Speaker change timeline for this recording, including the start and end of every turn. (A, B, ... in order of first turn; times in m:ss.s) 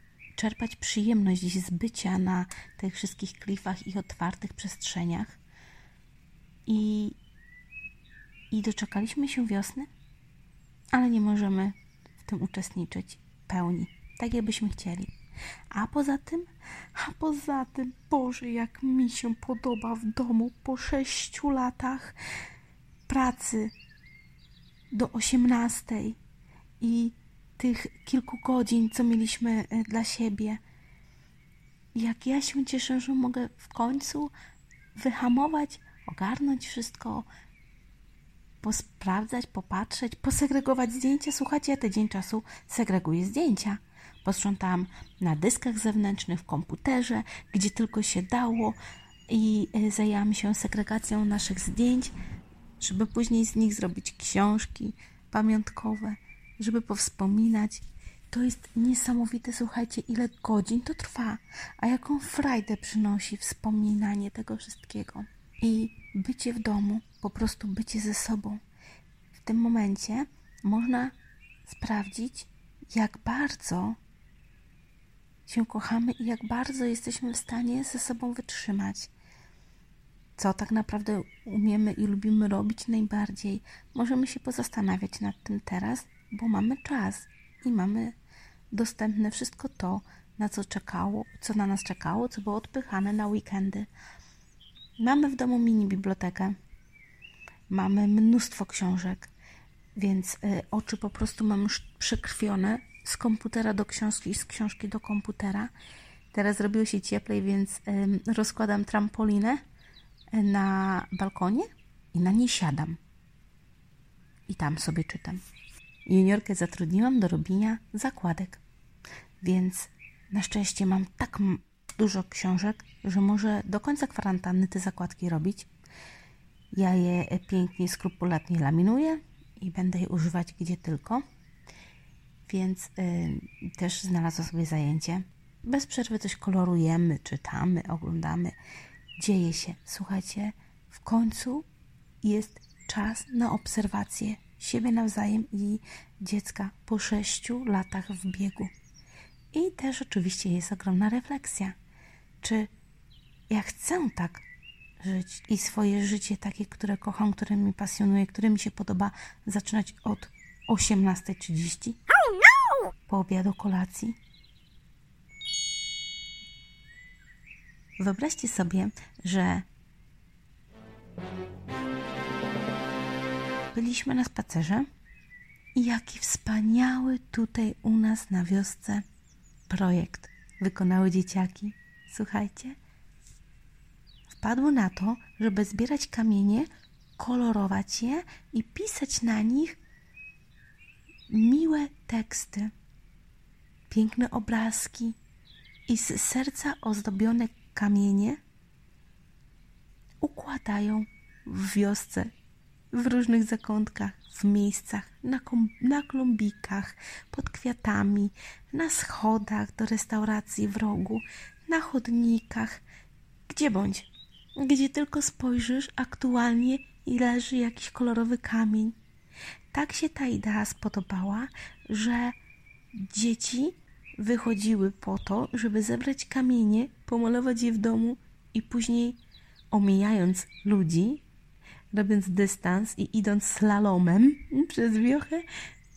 0:00.4-0:05.4 A
0:06.7-0:07.2 A
0:08.5-0:09.9 A
0:10.9-0:15.1 A
0:15.7-0:22.2 A
0:23.1-0:23.7 A
0:24.9-0:26.2 A
0:26.8-0:30.6 A
0:32.0-0:34.3 A
0:35.0-0:37.3 A
0:38.6-0:48.8 A
0:49.3-0:52.1 A
0:52.8-1:08.6 A
1:09.3-1:14.0 A
1:15.5-1:19.1 A
1:20.4-1:28.2 A
1:28.7-1:33.9 A
1:35.0-1:36.6 A
1:37.7-1:39.3 A
1:40.0-1:45.7 A
1:46.3-1:49.6 A
1:50.3-1:53.0 A
1:54.5-1:55.4 A
1:56.1-1:58.6 A
1:59.4-2:05.7 A
2:06.7-2:11.2 A
2:12.4-2:18.6 A
2:19.2-2:21.7 A
2:22.2-2:28.7 A
2:29.5-2:31.8 A
2:32.4-2:32.7 A
2:33.5-2:34.4 A
2:35.0-2:42.0 A
2:43.1-2:44.2 A
2:48.0-2:49.6 A
2:53.7-2:54.9 A
2:55.8-2:59.0 A
2:59.7-3:02.8 A
3:04.3-3:09.8 A
3:11.3-3:12.7 A
3:13.9-3:15.2 A
3:15.9-3:18.4 A
3:20.2-3:22.3 A
3:22.9-3:32.8 A
3:33.5-3:39.0 A
3:39.7-3:42.4 A
3:43.0-3:49.2 A
3:49.7-3:51.2 A
3:51.9-3:55.4 A